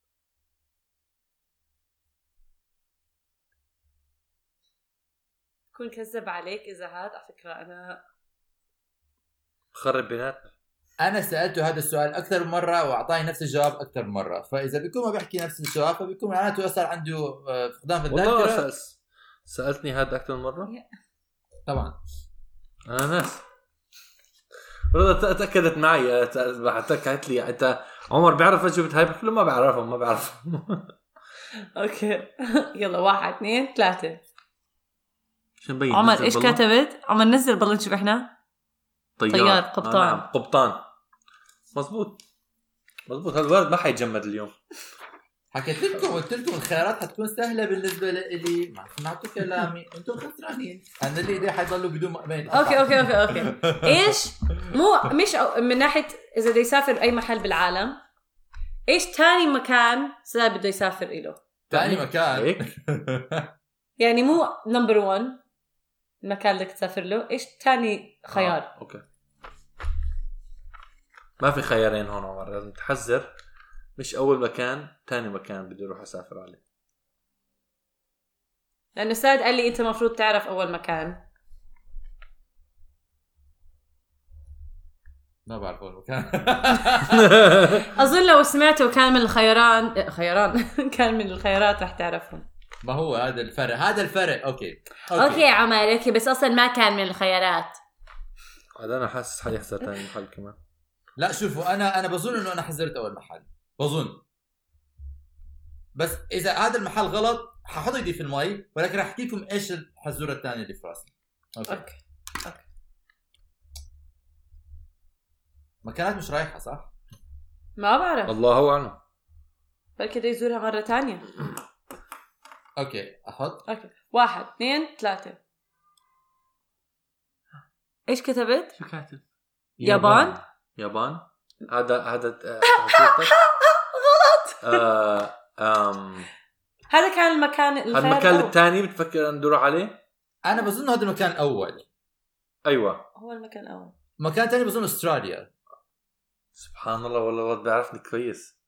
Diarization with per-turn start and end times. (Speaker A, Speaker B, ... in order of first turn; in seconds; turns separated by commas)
Speaker A: 5.7-8.0, Speaker B: 9.7-10.5, Speaker C: 11.0-18.7, Speaker B: 18.1-20.7, Speaker C: 21.7-22.0, Speaker B: 22.9-23.4, Speaker B: 24.9-30.9, Speaker A: 31.8-34.2, Speaker B: 35.6-36.6, Speaker A: 35.9-38.3, Speaker B: 39.2-40.8, Speaker A: 39.3-40.2, Speaker B: 41.7-42.2, Speaker B: 43.1-44.5, Speaker C: 45.5-54.1, Speaker A: 52.5-58.0, Speaker A: 58.9-61.4, Speaker B: 61.7-62.7, Speaker C: 61.7-63.5, Speaker A: 64.0-65.4, Speaker A: 66.2-68.7, Speaker B: 68.3-69.0, Speaker B: 71.4-73.3, Speaker B: 74.0-76.6, Speaker A: 79.0-81.2, Speaker C: 85.5-87.4, Speaker B: 87.2-87.8, Speaker A: 87.7-92.5, Speaker C: 92.8-95.4, Speaker A: 95.1-97.8, Speaker B: 98.8-100.6, Speaker C: 101.2-104.2, Speaker C: 106.0-111.8, Speaker A: 111.7-112.6, Speaker C: 115.8-116.9, Speaker A: 117.8-118.3, Speaker B: 118.3-119.0, Speaker A: 120.0-121.3, Speaker C: 122.8-123.7, Speaker A: 123.7-125.4, Speaker A: 128.1-128.8, Speaker B: 128.8-129.2, Speaker C: 129.8-130.4, Speaker A: 129.8-130.4, Speaker B: 130.8-133.3, Speaker A: 132.7-134.8, Speaker B: 134.6-136.3, Speaker A: 136.9-138.5, Speaker B: 137.9-140.0, Speaker C: 140.4-141.8, Speaker B: 142.7-143.1, Speaker A: 143.2-143.9, Speaker C: 144.2-145.5, Speaker B: 146.6-148.6